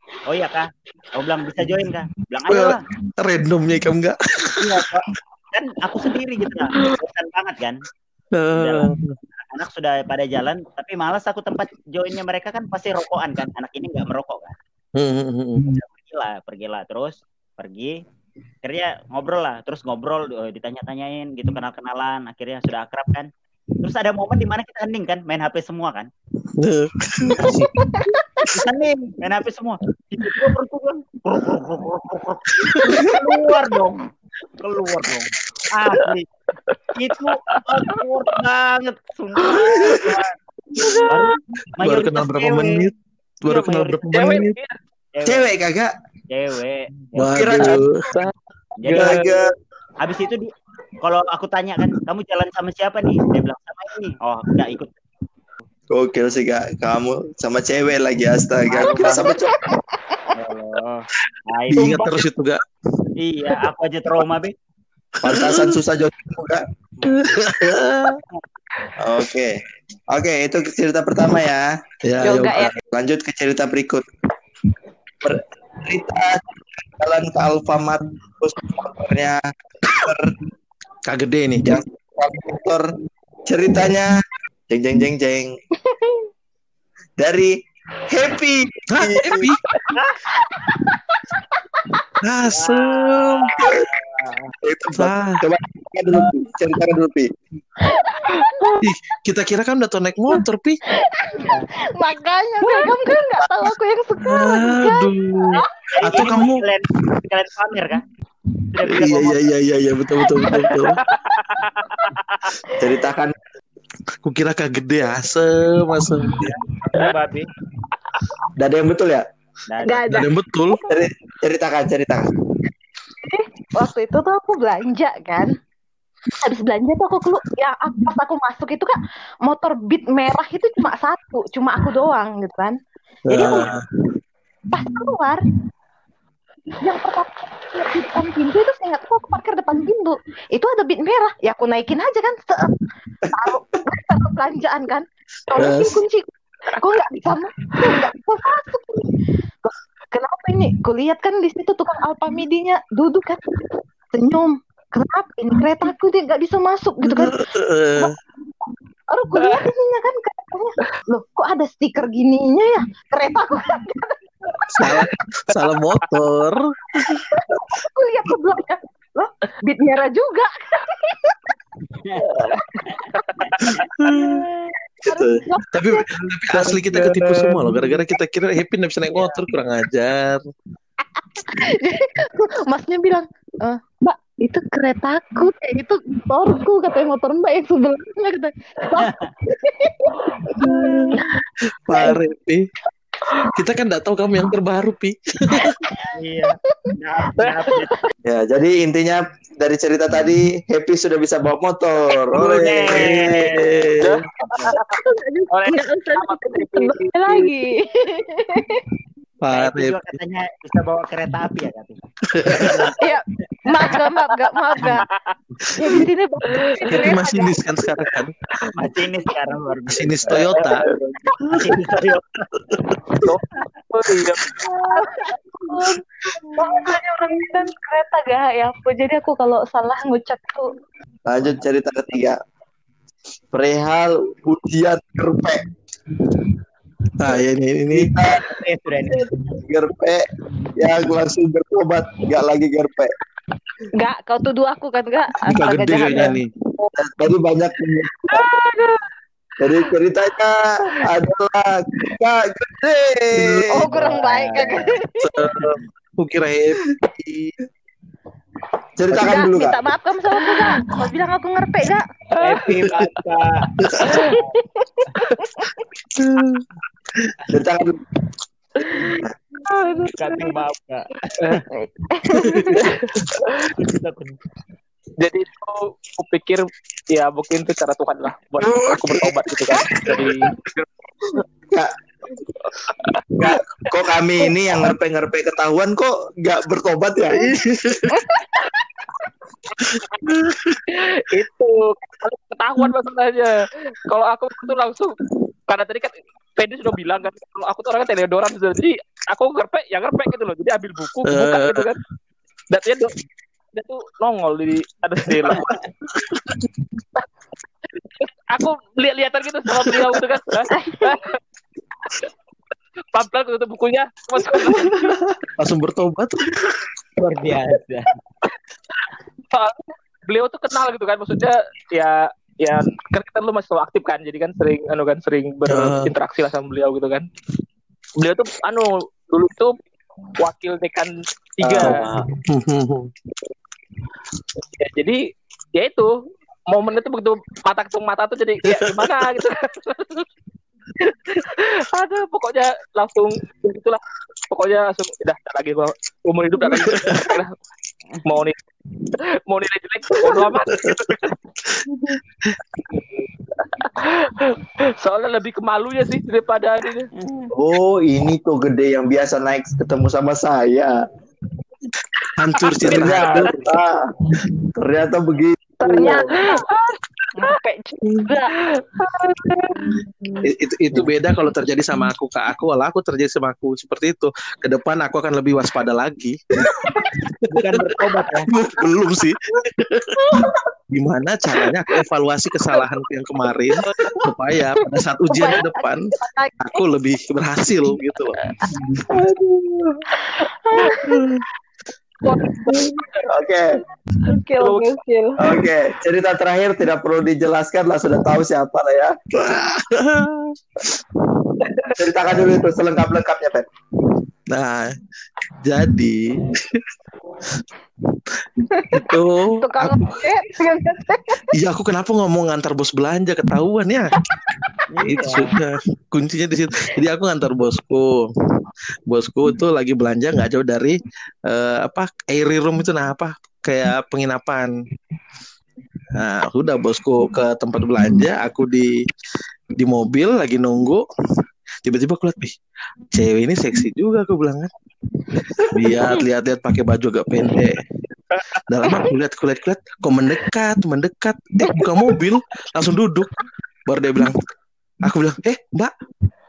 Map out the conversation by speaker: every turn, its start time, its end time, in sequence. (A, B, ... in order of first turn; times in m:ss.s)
0:00.2-0:02.8 A
0:02.5-0:04.8 B
0:04.6-0:07.8 A
0:08.3-0:09.2 B
0:08.6-0:08.9 A
0:09.5-0:14.6 A
0:15.0-0:15.7 B
0:15.7-0:18.0 A
0:18.6-0:23.3 A
0:23.8-0:26.1 A
0:26.6-0:27.9 B
0:27.4-0:28.5 C
0:28.5-0:34.0 A
0:32.6-0:33.0 B
0:34.6-0:36.3 A
0:36.9-0:40.3 A
0:40.8-0:41.1 D
0:41.0-0:42.9 A
0:41.8-0:44.6 B
0:43.4-0:44.3 A
0:44.1-0:44.7 D
0:45.1-0:45.5 A
0:45.2-0:45.9 E
0:46.3-0:47.6 A
0:47.2-0:48.0 B
0:47.2-0:47.9 E
0:47.6-0:49.3 D
0:48.8-0:49.3 A
0:48.9-0:49.4 E
0:50.0-0:50.5 A
0:51.0-0:55.0 A
0:55.9-0:59.6 E
0:58.7-0:59.4 A
0:58.8-1:00.3 C
1:00.3-1:02.2 A
1:01.7-1:02.6 B
1:03.2-1:04.5 A
1:05.2-1:06.6 E
1:05.2-1:05.8 B
1:07.0-1:08.2 B
1:09.0-1:11.7 E
1:12.0-1:12.8 B
1:12.2-1:12.7 C
1:12.3-1:14.0 E
1:15.2-1:16.4 E
1:17.0-1:20.4 E
1:21.0-1:21.8 B
1:21.6-1:22.9 E
1:23.4-1:25.5 E
1:25.8-1:26.3 C
1:27.2-1:29.5 E
1:28.9-1:29.6 B
1:30.3-1:32.0 C
1:32.2-1:33.7 B
1:32.5-1:34.5 A
1:34.6-1:37.3 E
1:34.9-1:35.4 B
1:37.8-1:38.9 C
1:38.8-1:40.8 B
1:40.9-1:45.7 C
1:41.4-1:41.7 A
1:44.2-1:46.6 B
1:45.9-1:48.0 A
1:48.7-1:49.5 A
1:48.9-1:51.0 B
1:50.4-1:50.7 C
1:51.1-1:52.4 D
1:52.8-1:53.4 E
1:54.2-1:56.5 B
1:56.4-1:57.5 A
1:58.6-1:59.2 E
1:59.7-2:00.2 A
1:59.8-2:00.9 C
2:00.1-2:00.8 B
2:00.9-2:02.4 E
2:03.2-2:05.5 C
2:06.3-2:12.8 C
2:13.3-2:13.8 B
2:13.3-2:13.7 C
2:13.4-2:13.7 E
2:14.7-2:15.4 C
2:16.8-2:22.7 C
2:23.2-2:23.6 E
2:23.3-2:29.1 C
2:25.6-2:26.0 B
2:29.6-2:33.4 C
2:34.1-2:37.4 C
2:37.0-2:38.1 B
2:39.1-2:44.9 C
2:39.3-2:39.6 D
2:44.7-2:47.2 B
2:47.2-2:51.3 C
2:52.3-2:52.6 E
2:52.8-2:53.8 A
2:53.2-2:53.7 D
2:54.0-2:54.4 B
2:55.0-2:55.4 E
2:55.1-2:56.0 C
2:55.7-3:00.4 B
2:56.5-2:58.0 E
2:59.1-2:59.4 A
3:01.1-3:12.2 C
3:08.9-3:09.3 A
3:10.6-3:11.2 B
3:11.8-3:12.6 B
3:13.3-3:13.5 C
3:13.5-3:15.8 B
3:15.6-3:16.9 C
3:16.1-3:18.0 A
3:18.2-3:23.4 E
3:22.3-3:24.3 B
3:22.3-3:23.8 A
3:24.0-3:25.0 D
3:24.4-3:24.8 A
3:24.7-3:28.8 C
3:25.5-3:27.5 D
3:29.4-3:30.0 B
3:29.5-3:34.1 A
3:32.3-3:32.9 B
3:33.0-3:35.1 C
3:35.6-3:36.1 B
3:35.7-3:37.6 C
3:36.6-3:36.9 D
3:36.9-3:38.4 B
3:38.8-3:40.8 A
3:39.9-3:40.8 B
3:40.3-3:41.8 E
3:41.4-3:42.5 A
3:43.2-3:44.5 D
3:44.9-3:46.0 C
3:46.6-3:50.7 C
3:51.3-3:52.4 E
3:53.5-3:55.6 E
3:57.2-3:58.1 B
3:57.9-3:58.6 E
3:58.4-3:59.3 A
3:59.1-4:00.2 E
4:00.8-4:03.1 E
4:04.0-4:07.0 C
4:05.4-4:06.5 B
4:06.0-4:06.3 E
4:06.9-4:08.5 E
4:08.2-4:09.0 C
4:09.6-4:14.6 E
4:13.3-4:13.9 B
4:13.7-4:15.4 C
4:14.5-4:14.9 A
4:15.2-4:17.5 B
4:19.0-4:19.8 E
4:19.1-4:22.1 C
4:22.4-4:24.6 A
4:23.8-4:24.2 B
4:24.1-4:25.8 C
4:26.2-4:26.6 B
4:27.5-4:28.0 E
4:29.7-4:30.5 C
4:30.1-4:31.6 A
4:31.7-4:32.9 C
4:32.4-4:32.8 B
4:32.8-4:33.7 D
4:33.7-4:34.3 A
4:35.2-4:40.5 D
4:38.6-4:40.3 B
4:43.4-4:47.5 E
4:47.3-4:48.2 B
4:48.1-4:48.6 C
4:49.8-4:50.8 B
4:50.9-4:55.2 D
4:55.7-5:02.0 D
5:01.2-5:01.9 B
5:02.7-5:03.1 D
5:03.7-5:05.6 D
5:05.4-5:06.6 B
5:08.2-5:11.4 D
5:10.8-5:11.1 C
5:13.1-5:15.1 D
5:15.6-5:16.5 B
5:17.2-5:18.1 A
5:19.5-5:27.3 D
5:25.7-5:26.1 B
5:28.2-5:29.8 D
5:30.4-5:32.0 D
5:31.6-5:32.2 E
5:31.8-5:33.1 B
5:34.7-5:35.2 D
5:35.7-5:36.1 D
5:36.7-5:40.2 D
5:38.6-5:39.0 B
5:41.0-5:47.5 D
5:46.6-5:47.4 B
5:48.2-5:48.6 D
5:49.5-5:51.3 D
5:50.2-5:52.6 B
5:53.8-5:57.1 D
5:57.1-5:57.5 A
5:57.5-6:01.0 E
6:02.4-6:03.7 B
6:02.8-6:04.0 E
6:02.8-6:03.7 A
6:04.7-6:06.3 E
6:05.8-6:08.6 C
6:09.0-6:09.9 D
6:10.4-6:16.4 B
6:17.4-6:17.8 B
6:17.5-6:18.5 A
6:18.5-6:26.1 B
6:20.3-6:20.6 C
6:23.9-6:24.2 C
6:25.3-6:26.8 C
6:26.6-6:28.3 B
6:28.8-6:29.9 E
6:30.2-6:31.3 C
6:31.0-6:31.4 B
6:32.3-6:33.3 D
6:32.5-6:33.0 C
6:33.3-6:33.8 E
6:34.2-6:35.5 C
6:34.6-6:34.9 D
6:35.4-6:39.2 E
6:39.4-6:40.8 B
6:41.8-6:43.7 E
6:44.5-6:44.9 B
6:45.6-6:46.8 B
6:48.9-6:50.2 B
6:49.6-6:51.4 C
6:51.5-6:54.2 B
6:54.9-6:55.5 A
6:55.0-6:58.2 B
6:59.1-7:04.7 B
7:06.2-7:09.0 B
7:09.8-7:11.0 B
7:11.8-7:12.5 B
7:13.1-7:14.7 B
7:15.7-7:17.8 B
7:18.7-7:23.3 B
7:23.9-7:24.4 B
7:25.0-7:25.9 B